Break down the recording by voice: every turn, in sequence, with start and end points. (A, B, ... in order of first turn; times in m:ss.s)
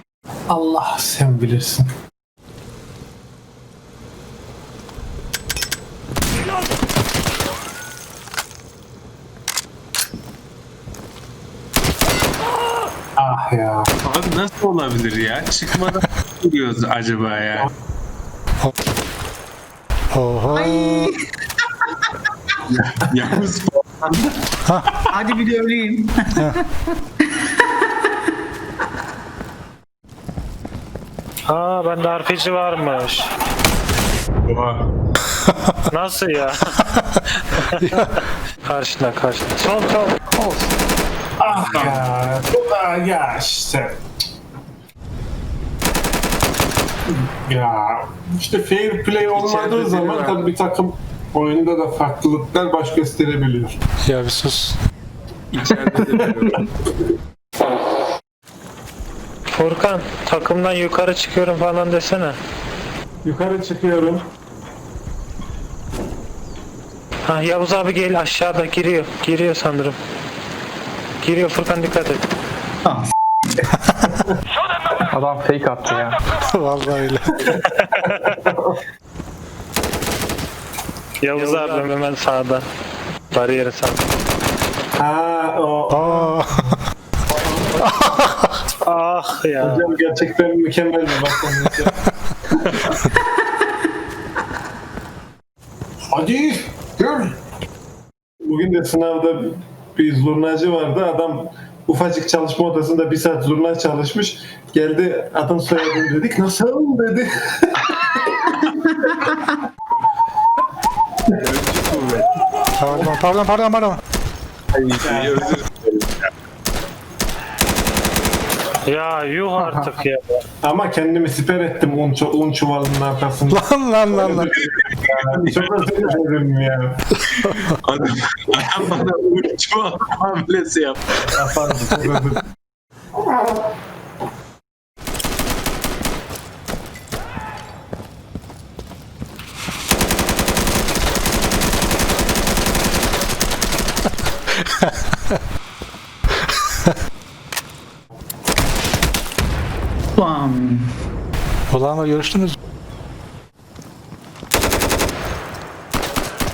0:00.5-0:01.9 A
0:13.2-0:13.9 A
0:14.0-0:17.7 B
0:20.1-0:21.1 C
0:20.5-0:21.2 D
0:22.7-0:24.3 B
0:25.1-0:26.6 D
0:31.5-0:33.3 E
0:34.5-0:34.9 B
0:35.5-0:35.8 C
0:35.9-0:36.8 E
0:37.8-0:38.2 C
0:38.6-0:40.2 E
0:40.3-0:40.7 F
0:41.4-0:44.0 A
0:41.5-0:42.1 B
0:47.1-0:53.8 A
0:49.3-0:50.4 B
0:54.0-0:54.8 C
0:55.5-0:56.6 B
0:56.0-0:56.6 A
0:59.5-1:02.4 E
1:03.2-1:04.2 A
1:07.3-1:10.0 E
1:11.2-1:12.2 E
1:12.8-1:13.1 D
1:15.1-1:16.2 F
1:16.3-1:17.5 C
1:17.6-1:18.3 E
1:18.0-1:18.8 A
1:21.2-1:22.6 E
1:23.3-1:24.0 E
1:25.0-1:26.8 A
1:25.9-1:26.8 C
1:27.4-1:27.8 A
1:27.8-1:28.6 C
1:28.8-1:29.9 E
1:29.6-1:32.0 A
1:32.5-1:32.9 A
1:36.1-1:37.3 A
1:38.4-1:48.2 A
1:48.7-1:49.4 D
1:51.4-1:52.4 B
1:52.8-1:54.0 C
1:54.7-1:56.1 B
1:55.0-1:55.6 A
1:58.9-2:00.4 E
1:59.6-1:59.9 F
2:00.6-2:07.1 A
2:03.5-2:04.5 C
2:04.5-2:06.2 B
2:07.4-2:11.3 B
2:11.3-2:12.4 A
2:24.6-2:25.4 C
2:30.1-2:30.9 D
2:31.7-2:32.6 C